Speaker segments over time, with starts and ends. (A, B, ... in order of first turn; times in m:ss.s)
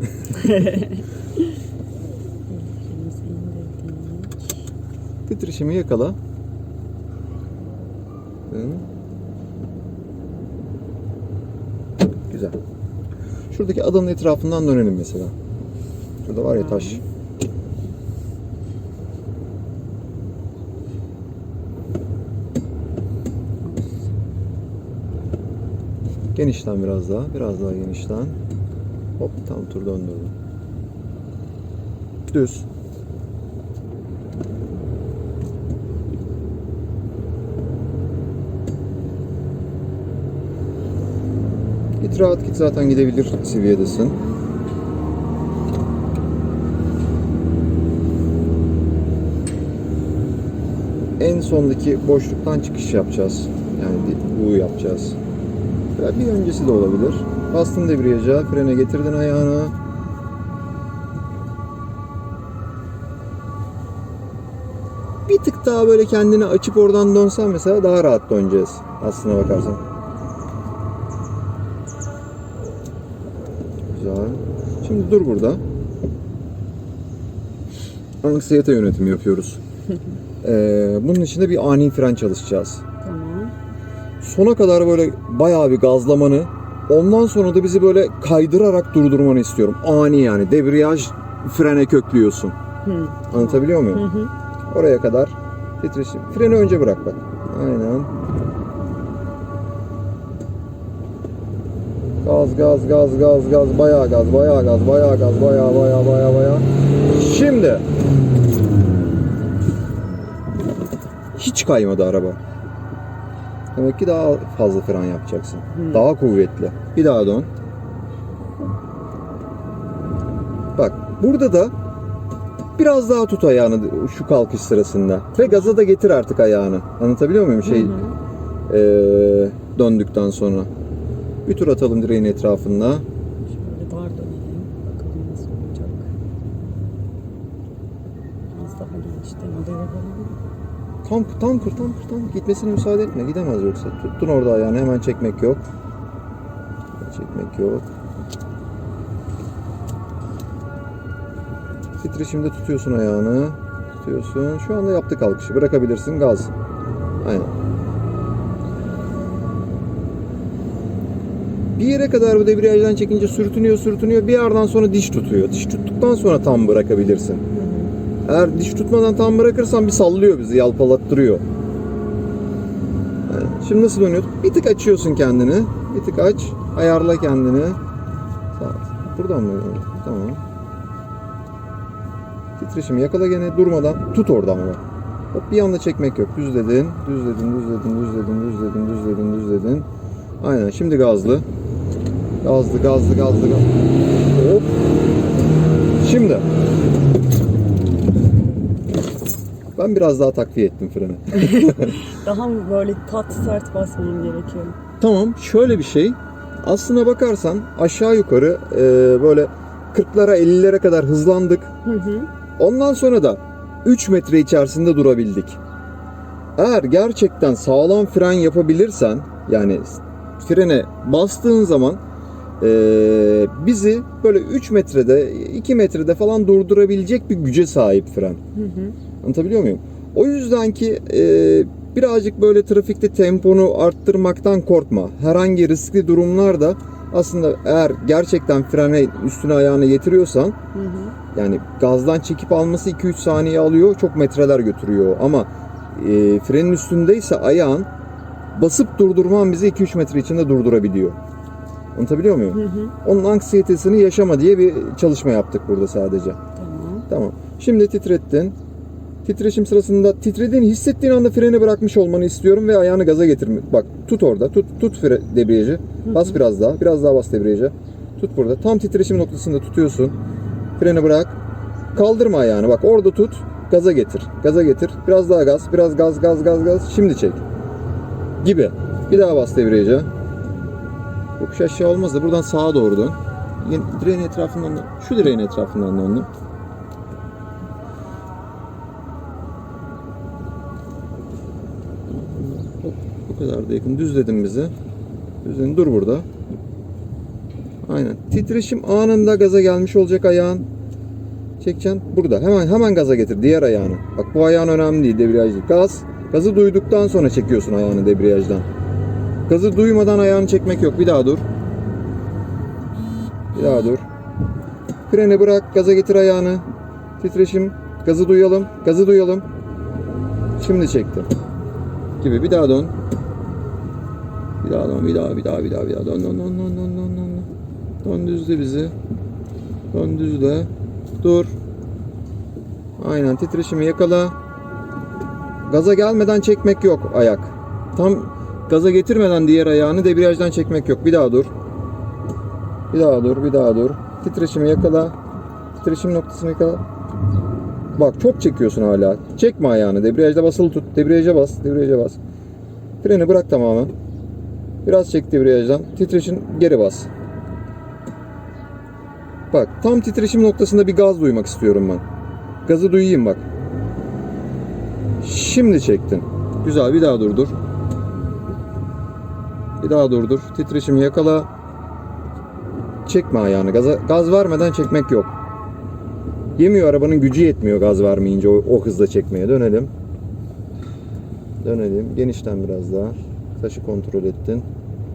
0:00.4-0:01.6 A
0:02.5-0:04.5 A
0:05.3-0:06.2 B
0:08.5-0:08.8 B
0:12.3-0:12.6 B
0:13.5-0:15.3 B
0:16.2-0:17.0 B
0:16.6-0:17.0 A
0:23.6-0:24.1 A
0:26.3-0:28.4 B
0:29.2-0:30.3 B
0:32.3-0:32.6 B
0:42.0-0:44.2 B
0:51.2-0:55.2 B
0:56.0-0:59.7 B
1:05.3-1:09.8 B
1:13.9-1:15.6 B
1:18.2-1:19.6 B
1:20.4-1:22.8 B
1:23.0-1:23.5 A
1:24.2-1:32.6 B
1:32.8-1:34.3 A
1:33.3-1:34.0 B
1:34.7-1:38.1 B
1:42.2-1:47.8 B
1:51.4-1:52.4 B
1:53.7-1:57.5 B
1:55.7-1:56.0 A
2:00.8-2:01.7 B
2:02.8-2:08.0 B
2:05.4-2:05.8 A
2:07.6-2:08.1 A
2:08.7-2:10.7 B
2:11.4-2:13.0 B
2:13.5-2:16.1 A
2:18.5-2:20.4 A
2:21.0-2:25.6 B
2:27.0-2:27.9 B
2:32.0-2:36.5 B
2:37.2-2:37.5 B
2:41.8-2:47.4 B
2:47.5-2:47.9 A
2:48.2-2:51.4 B
2:53.3-2:57.8 B
2:58.5-3:00.4 B
3:02.6-3:04.8 B
3:05.3-3:09.9 B
3:10.4-3:11.4 B
3:12.4-3:13.7 B
3:14.3-3:14.7 B
3:16.0-3:16.4 B
3:19.8-3:22.0 B
3:21.4-3:24.8 A
3:25.0-3:31.7 B
3:31.8-3:32.3 A
3:32.6-3:35.6 B
3:36.6-3:42.0 B
3:42.6-3:48.4 B
3:48.5-3:49.0 A
3:49.2-4:00.6 B
4:00.7-4:01.2 A
4:01.3-4:07.9 B
4:08.5-4:11.2 B
4:11.9-4:16.4 B
4:12.5-4:12.9 A
4:16.6-4:17.0 A
4:17.1-4:18.5 B
4:19.2-4:30.1 B
4:26.0-4:26.4 A
4:30.8-4:31.4 B
4:31.9-4:37.4 B
4:38.4-4:40.1 B
4:41.4-4:46.3 B
4:52.1-4:54.7 B
4:55.4-4:56.3 B
4:57.8-5:00.7 B
5:01.6-5:08.7 B
5:09.5-5:11.4 B
5:13.5-5:14.0 B
5:15.1-5:16.6 B
5:17.2-5:19.4 B
5:20.6-5:21.3 B
5:22.2-5:22.9 B
5:24.6-5:27.5 B
5:28.0-5:28.9 B
5:29.9-5:30.7 B
5:31.2-5:31.5 B
5:33.0-5:34.3 B
5:35.6-5:41.5 B
5:42.9-5:45.1 B
5:45.8-5:46.8 B
5:48.0-5:52.2 B
5:53.0-5:53.9 B
5:54.8-5:57.1 B
5:59.5-6:02.0 B
6:02.6-6:03.4 B
6:05.2-6:07.6 B
6:09.8-6:11.5 B
6:13.0-6:15.3 B
6:16.6-6:19.9 B
6:21.6-6:24.6 B